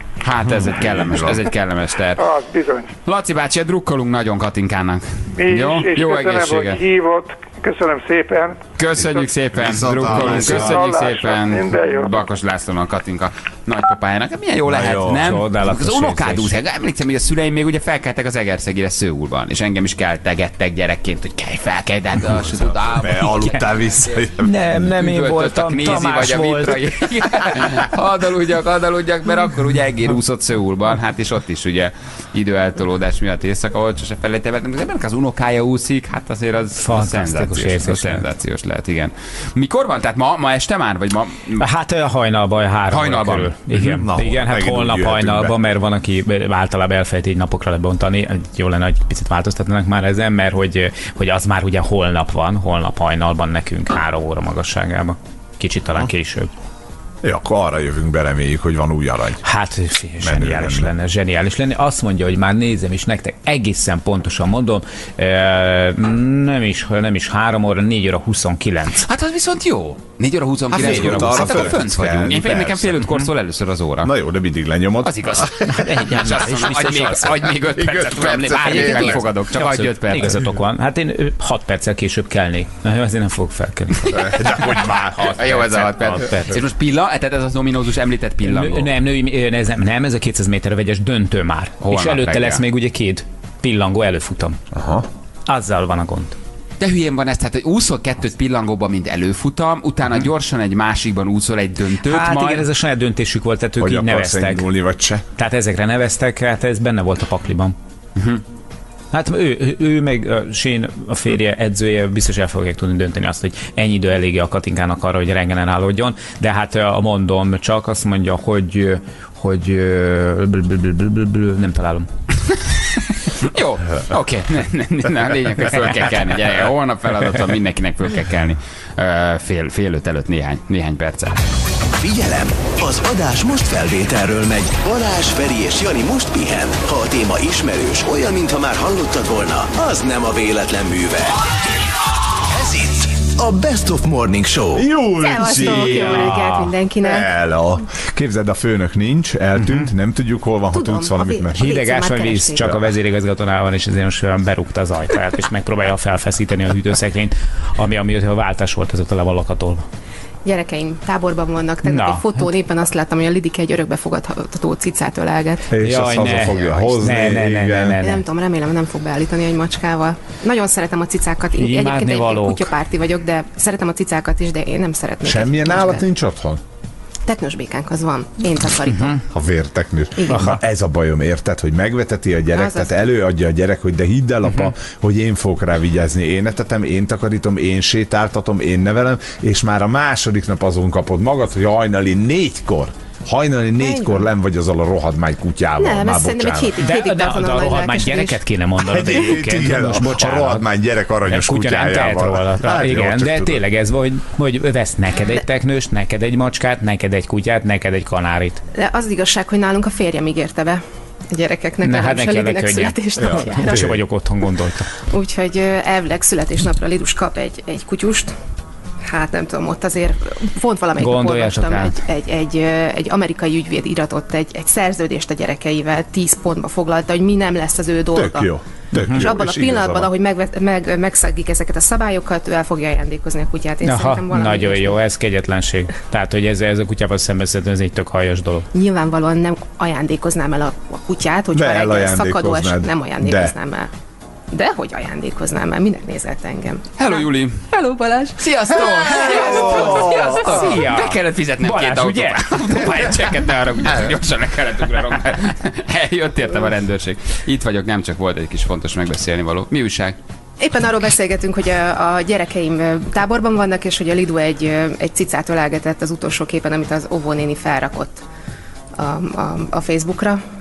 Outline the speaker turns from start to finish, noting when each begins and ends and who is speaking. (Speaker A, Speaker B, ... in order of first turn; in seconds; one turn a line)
Speaker A: 0.2-2.2
Speaker B: 0.5-1.4
Speaker C: 2.2-2.9
Speaker A: 3.1-6.8
Speaker C: 5.3-9.2
Speaker A: 8.8-23.7
Speaker B: 9.5-11.0
Speaker C: 10.1-12.1
Speaker B: 14.7-15.3
Speaker D: 15.2-16.5
Speaker B: 22.3-24.5
Speaker D: 24.4-26.8
Speaker A: 24.9-41.6
Speaker D: 36.8-38.2
Speaker D: 41.6-56.5
Speaker A: 42.9-43.5
Speaker B: 43.7-45.6
Speaker B: 57.2-59.5
Speaker D: 59.4-69.1
Speaker B: 60.2-60.9
Speaker A: 69.1-74.1
Speaker B: 70.7-73.1
Speaker D: 70.8-71.5
Speaker B: 74.0-75.7
Speaker A: 75.0-80.4
Speaker D: 75.7-77.3
Speaker B: 77.8-79.2
Speaker D: 78.6-85.4
Speaker B: 84.1-86.2
Speaker A: 85.4-88.9
Speaker D: 86.1-86.5
Speaker D: 88.5-94.6
Speaker A: 91.8-92.6
Speaker B: 94.7-95.1
Speaker D: 95.5-96.4
Speaker A: 96.8-102.7
Speaker D: 102.1-104.7
Speaker B: 103.8-105.2
Speaker D: 105.4-107.8
Speaker A: 108.2-108.4
Speaker D: 109.1-122.1
Speaker A: 123.4-131.4
Speaker E: 132.0-141.3
Speaker E: 142.5-144.8
Speaker B: 144.8-151.6
Speaker F: 145.2-147.3
Speaker D: 146.2-146.6
Speaker D: 149.6-149.9
Speaker F: 150.7-152.7
Speaker D: 151.6-159.9
Speaker B: 152.6-152.9
Speaker F: 160.4-165.7
Speaker D: 161.8-162.3
Speaker B: 165.7-168.0
Speaker D: 165.8-168.2
Speaker F: 168.0-176.0
Speaker D: 171.6-172.7
Speaker B: 175.2-176.6
Speaker F: 177.3-179.2
Speaker B: 179.3-196.7
Speaker F: 180.2-180.5
Speaker D: 180.3-180.6
Speaker F: 182.5-182.9
Speaker F: 193.8-194.3
Speaker F: 195.8-198.4
Speaker D: 196.8-200.7
Speaker B: 198.8-203.6
Speaker D: 201.3-208.6
Speaker F: 208.8-214.0
Speaker D: 211.8-214.9
Speaker B: 213.2-213.9
Speaker F: 215.1-218.3
Speaker F: 219.1-228.5
Speaker D: 221.0-221.9
Speaker B: 228.2-230.1
Speaker D: 229.0-229.3
Speaker F: 229.1-234.9
Speaker D: 233.8-238.7
Speaker F: 238.7-243.9
Speaker B: 241.5-243.5
Speaker F: 244.5-248.3
Speaker A: 247.0-247.6
Speaker A: 248.4-260.2
Speaker F: 249.0-249.5
Speaker B: 249.2-250.8
Speaker D: 250.4-252.6
Speaker F: 260.6-268.2
Speaker F: 269.0-270.4